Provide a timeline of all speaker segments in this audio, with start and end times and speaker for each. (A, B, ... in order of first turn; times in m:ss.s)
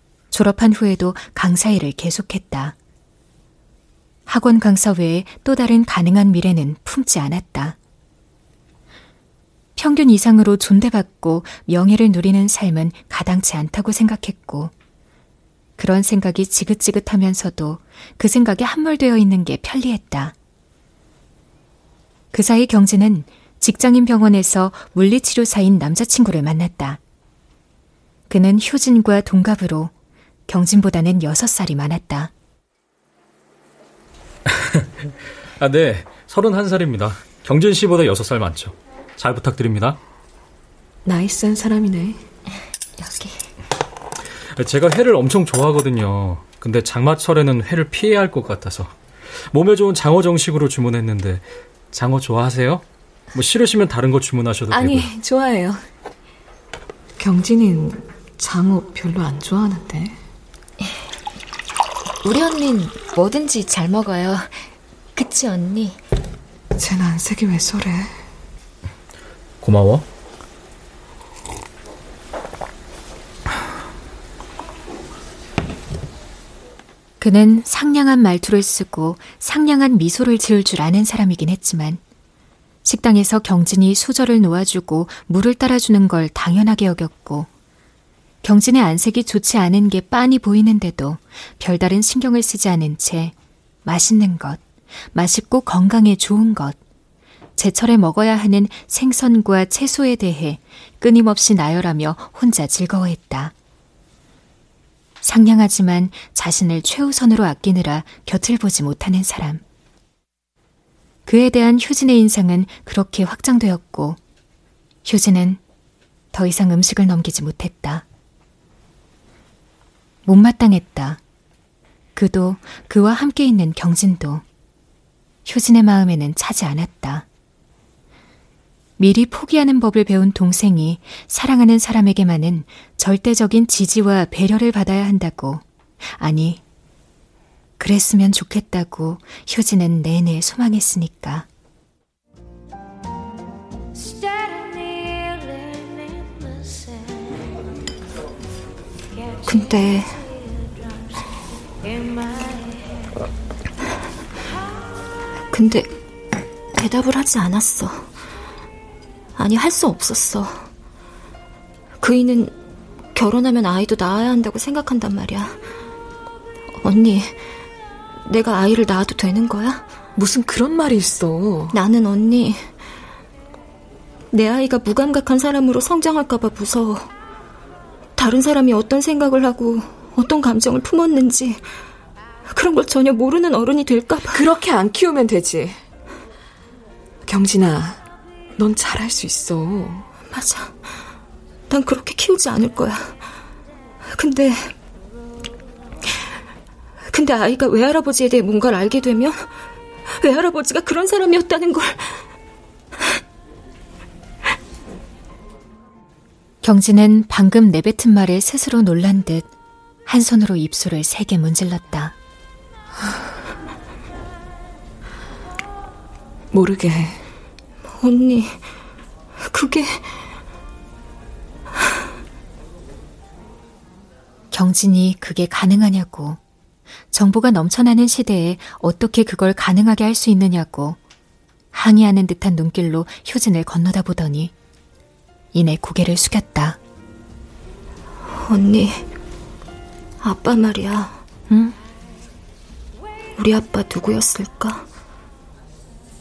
0:00.3-0:02.7 A
0:04.3-0:07.8 A
0:09.8-0:14.7 A
0:15.8-0:20.3 A
0:22.3-0:27.0 A
0:28.3-0:29.9 A
0:30.5-0:32.3 A
0:34.5-0:40.0 B
0:41.0-0:42.2 C
0:43.0-0:43.4 D
0:44.5-0:48.9 B
0:49.5-0:55.1 B
0:54.7-0:55.8 C
0:57.2-1:00.2 C
1:02.2-1:06.0 D
1:06.8-1:08.2 C
1:09.6-1:10.0 B
1:17.2-1:22.0 A
1:22.8-1:27.5 A
1:28.4-1:33.3 A
1:33.8-1:34.6 A
1:35.1-1:36.8 A
1:37.6-1:43.5 A
1:45.2-1:49.6 A
1:51.2-1:54.2 A
1:55.0-1:55.6 A
1:56.3-1:58.0 A
2:00.2-2:01.2 A
2:02.2-2:04.4 A
2:05.4-2:07.2 A
2:09.0-2:15.6 A
2:16.2-2:16.6 A
2:17.8-2:21.4 A
2:29.4-2:30.2 D
2:35.5-2:35.9 D
2:36.7-2:38.1 D
2:39.4-2:40.7 D
2:42.0-2:42.6 D
2:43.1-2:45.6 D
2:46.8-2:47.4 D
2:48.2-2:49.9 D
2:50.2-2:51.8 C
2:51.7-2:52.7 D
2:54.3-2:57.1 D
2:58.2-3:01.6 D
3:02.5-3:04.4 D
3:04.3-3:05.8 C
3:07.2-3:08.0 C
3:08.6-3:10.1 C
3:10.3-3:10.8 D
3:11.7-3:13.2 D
3:14.0-3:14.7 D
3:17.1-3:19.5 D
3:20.2-3:22.2 D
3:26.6-3:29.5 A
3:30.0-3:32.1 A
3:36.5-3:37.2 C
3:37.9-3:38.6 D
3:39.4-3:40.2 D
3:44.5-3:46.4 A
3:47.1-3:51.0 A
3:51.7-3:54.5 A
3:55.5-3:56.8 A
3:58.2-3:59.1 D
4:00.2-4:01.2 D
4:01.5-4:01.7 A
4:03.4-4:04.9 D